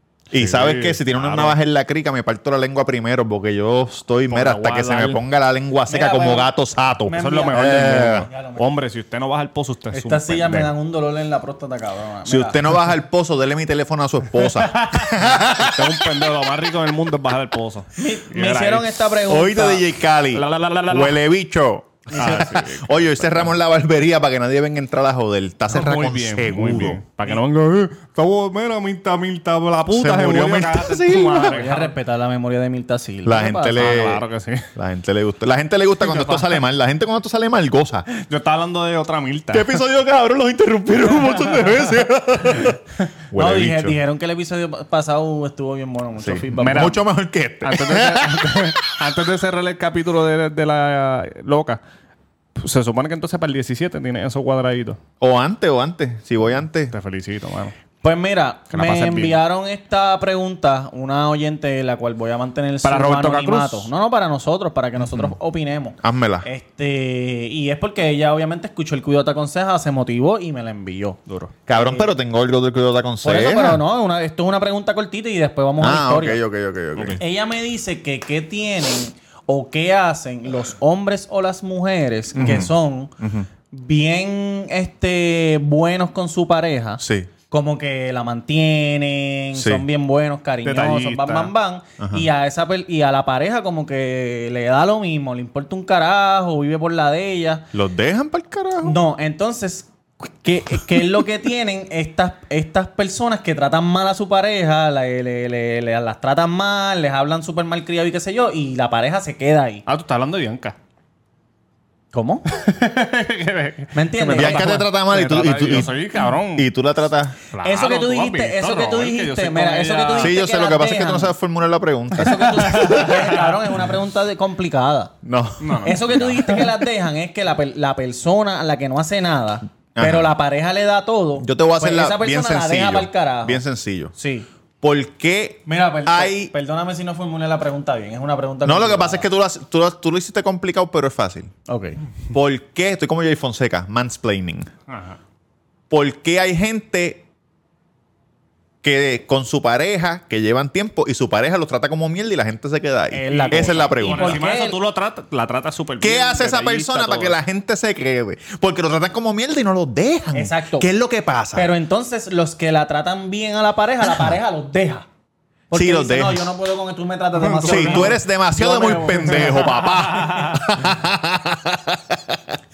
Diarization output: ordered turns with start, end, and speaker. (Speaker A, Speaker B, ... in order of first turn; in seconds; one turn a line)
Speaker A: 0.3-8.3
Speaker B: 0.3-1.6
Speaker B: 4.3-5.2
Speaker C: 5.9-6.5
Speaker C: 7.1-8.7
Speaker B: 7.1-10.7
Speaker C: 9.9-12.6
Speaker A: 12.2-16.2
Speaker B: 14.4-19.0
Speaker C: 17.9-19.8
Speaker A: 19.2-27.0
Speaker B: 20.3-21.2
Speaker C: 22.1-22.4
Speaker B: 22.1-23.6
Speaker B: 25.7-31.9
Speaker A: 29.9-31.6
Speaker C: 31.5-33.8
Speaker A: 33.2-34.2
Speaker B: 33.7-34.7
Speaker A: 34.7-38.1
Speaker B: 38.1-39.8
Speaker A: 39.5-44.0
Speaker C: 43.3-47.0
Speaker A: 46.2-48.8
Speaker B: 46.6-47.0
Speaker B: 47.6-51.8
Speaker B: 52.5-55.0
Speaker A: 55.2-56.9
Speaker B: 56.9-57.7
Speaker C: 58.0-72.1
Speaker B: 58.7-59.4
Speaker B: 62.8-63.9
Speaker A: 65.0-65.3
Speaker A: 66.0-66.5
Speaker A: 71.7-73.8
Speaker C: 73.2-76.4
Speaker A: 75.8-77.2
Speaker B: 76.9-77.2
Speaker C: 77.2-83.1
Speaker A: 82.3-83.5
Speaker C: 83.7-97.7
Speaker A: 87.0-87.3
Speaker A: 89.5-89.8
Speaker B: 90.6-91.5
Speaker A: 92.0-92.3
Speaker A: 97.7-99.0
Speaker C: 98.8-109.8
Speaker B: 109.8-110.8
Speaker C: 112.1-112.5
Speaker B: 112.5-116.7
Speaker C: 113.9-114.8
Speaker A: 114.3-117.4
Speaker B: 117.5-120.3
Speaker C: 117.6-121.3
Speaker A: 120.2-123.3
Speaker C: 122.1-125.1
Speaker B: 122.4-123.6
Speaker A: 125.2-126.5
Speaker B: 125.6-126.7
Speaker C: 125.8-133.6
Speaker A: 129.9-130.3
Speaker A: 131.4-134.1
Speaker C: 134.1-134.5
Speaker A: 134.8-136.5
Speaker C: 135.7-139.2
Speaker A: 138.6-141.5
Speaker C: 141.7-142.0
Speaker A: 142.3-144.7
Speaker B: 144.9-145.2
Speaker A: 145.9-147.2
Speaker A: 148.8-154.4
Speaker C: 153.1-154.8
Speaker B: 153.3-157.4
Speaker A: 156.0-161.7
Speaker C: 160.3-160.9
Speaker C: 161.5-165.1
Speaker C: 165.7-169.7
Speaker A: 165.7-166.5
Speaker B: 167.4-168.2
Speaker A: 167.6-172.6
Speaker B: 169.3-170.6